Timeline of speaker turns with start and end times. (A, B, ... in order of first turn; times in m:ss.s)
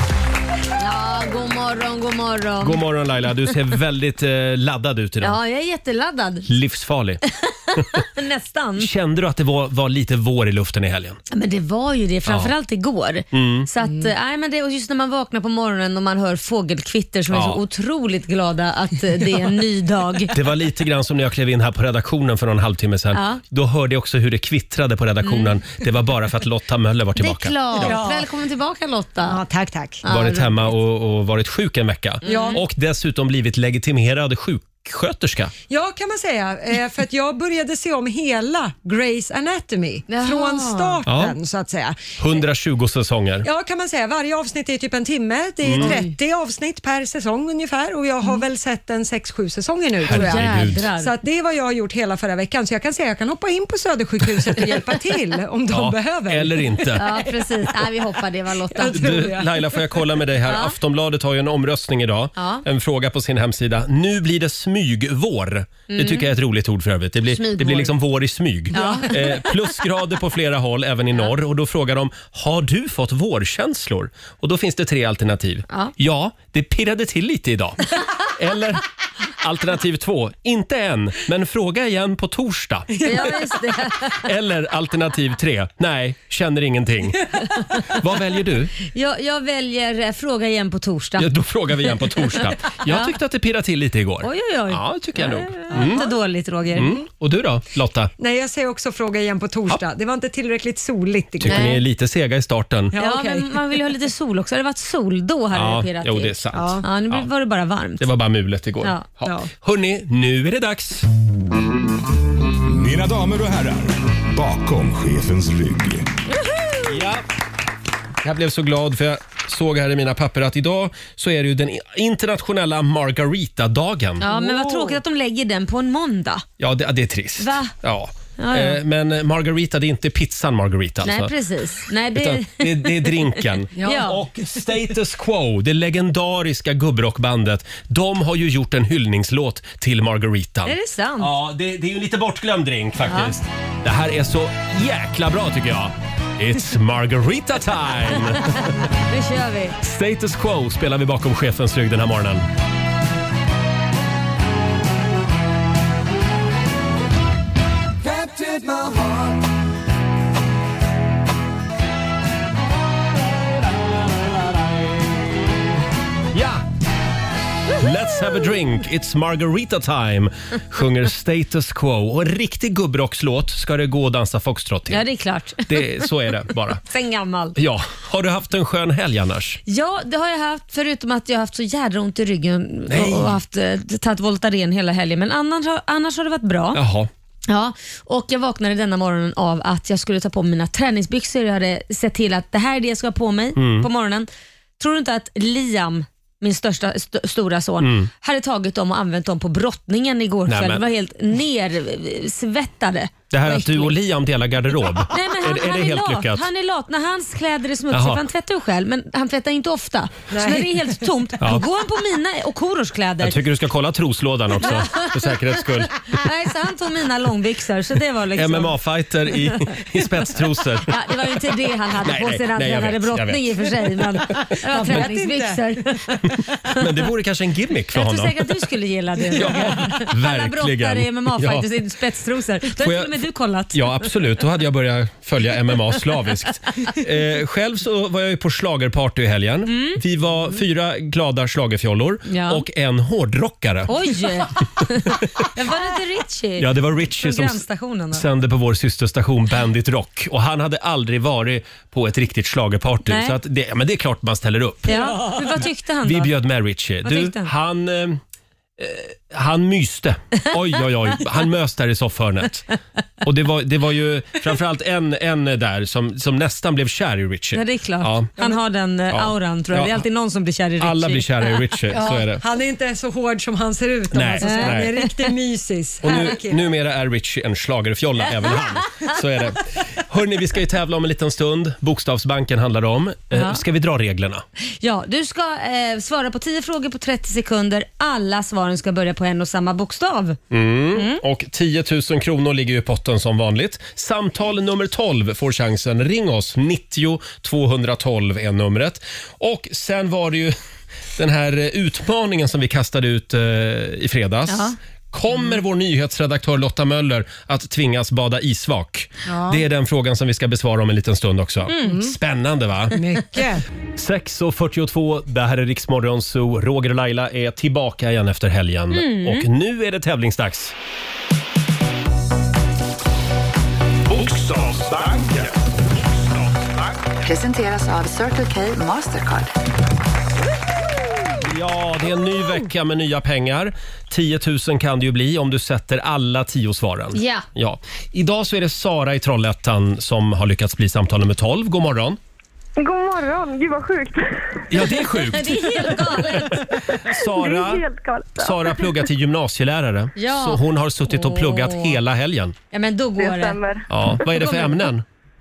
0:00.8-0:02.8 A
0:02.6-0:05.4 B
0:05.2-0:06.5 A
0:06.4-0:07.2 B
0:07.5-0:08.9 A
0:08.8-0:11.2 B
0:11.3-0:20.3 A
0:12.2-0:12.5 B
0:13.3-0:13.7 B
0:17.3-0:17.6 B
0:20.3-0:28.0 B
0:23.1-0:23.4 A
0:25.2-0:25.5 A
0:27.2-0:29.4 A
0:27.8-0:28.3 C
0:29.3-0:30.0 C
0:30.0-0:30.7 A
0:30.1-0:35.5 B
0:32.2-0:32.6 A
0:32.2-0:32.6 C
0:35.7-0:42.0 C
0:40.1-0:41.0 A
0:41.1-0:41.4 B
0:42.2-0:43.5 B
0:43.4-0:57.0 C
0:45.6-0:46.0 B
0:45.8-0:46.1 A
0:50.0-0:50.9 B
0:50.1-0:51.1 A
0:55.7-0:57.1 B
0:57.0-0:59.2 A
0:58.7-0:59.5 C
0:58.8-1:18.8 B
1:00.5-1:00.8 A
1:02.4-1:02.6 A
1:05.9-1:06.3 A
1:07.3-1:07.9 A
1:08.7-1:09.1 C
1:08.7-1:09.2 A
1:19.4-1:23.0 B
1:23.0-1:23.4 C
1:23.0-1:24.2 A
1:24.1-1:27.3 B
1:27.9-1:28.7 B
1:28.8-1:31.3 A
1:31.2-1:36.0 B
1:32.7-1:33.1 A
1:34.2-1:37.0 A
1:35.7-1:36.0 C
1:36.7-1:38.1 B
1:38.2-1:41.7 C
1:41.4-1:42.9 B
1:41.5-1:41.8 A
1:42.9-1:43.5 C
1:43.0-1:48.1 A
1:45.5-1:47.3 B
1:46.5-1:46.8 C
1:48.0-1:51.1 B
1:49.2-1:49.5 C
1:52.7-1:56.0 D
1:56.9-1:57.2 B
1:58.2-2:04.3 B
2:04.2-2:06.4 A
2:04.3-2:05.0 C
2:06.6-2:11.3 B
2:07.4-2:07.7 A
2:08.4-2:08.8 A
2:11.0-2:13.1 A
2:12.1-2:28.8 B
2:13.8-2:14.2 A
2:13.8-2:14.0 C
2:20.7-2:21.3 A
2:23.1-2:23.3 A
2:28.5-2:29.8 A
2:29.8-2:32.5 B
2:38.0-2:39.4 D
2:46.3-2:46.6 B
2:47.7-2:55.0 B
2:54.9-2:57.6 A
2:55.7-2:56.8 B
2:57.6-2:59.6 B
2:59.7-3:06.8 A
3:02.9-3:03.4 B
3:06.7-3:07.1 B
3:07.5-3:23.9 A
3:13.6-3:13.9 B
3:17.8-3:18.1 B
3:20.5-3:20.8 B
3:23.3-3:26.5 B
3:25.1-3:33.4 A
3:27.9-3:28.2 B
3:30.3-3:30.9 C
3:33.2-3:35.9 B
3:34.6-3:38.7 A
3:38.3-3:41.0 B
3:40.8-3:46.2 A
3:42.0-3:43.8 B
3:44.5-3:46.3 C
3:46.7-3:48.4 B
3:47.9-3:54.1 A
3:49.3-3:51.7 B
3:52.7-3:53.1 B
3:53.7-4:03.9 B
3:59.7-4:00.0 A
4:02.3-4:02.6 A
4:03.9-4:08.2 A
4:06.6-4:15.3 B
4:13.0-4:13.4 A
4:14.9-4:16.3 A
4:16.0-4:18.2 B
4:17.0-4:17.5 A
4:18.8-4:22.6 B
4:23.2-4:28.3 B
4:27.5-4:32.2 A
4:29.1-4:30.0 B
4:30.8-4:32.4 B
4:32.4-4:36.7 C
4:34.1-4:35.0 B
4:34.4-4:35.1 A
4:36.0-4:44.4 B
4:43.3-4:43.6 A
4:44.8-4:50.4 A
4:50.5-5:00.5 B
4:50.9-4:51.2 A
5:01.2-5:13.0 B
5:04.5-5:04.8 A
5:09.2-5:09.6 C
5:11.7-5:12.0 A
5:11.8-5:12.1 C
5:12.9-5:13.6 C
5:14.0-5:20.8 B
5:18.9-5:19.5 A
5:24.1-5:27.0 D
5:27.2-5:29.5 E
5:31.4-5:42.2 B
5:37.1-5:37.5 A
5:42.8-5:44.7 F
5:44.7-5:52.5 B
5:45.2-5:46.7 A
5:46.7-5:49.0 F
5:50.2-5:52.0 A
5:52.7-5:53.6 A
5:53.2-5:54.5 F
5:53.9-5:55.0 B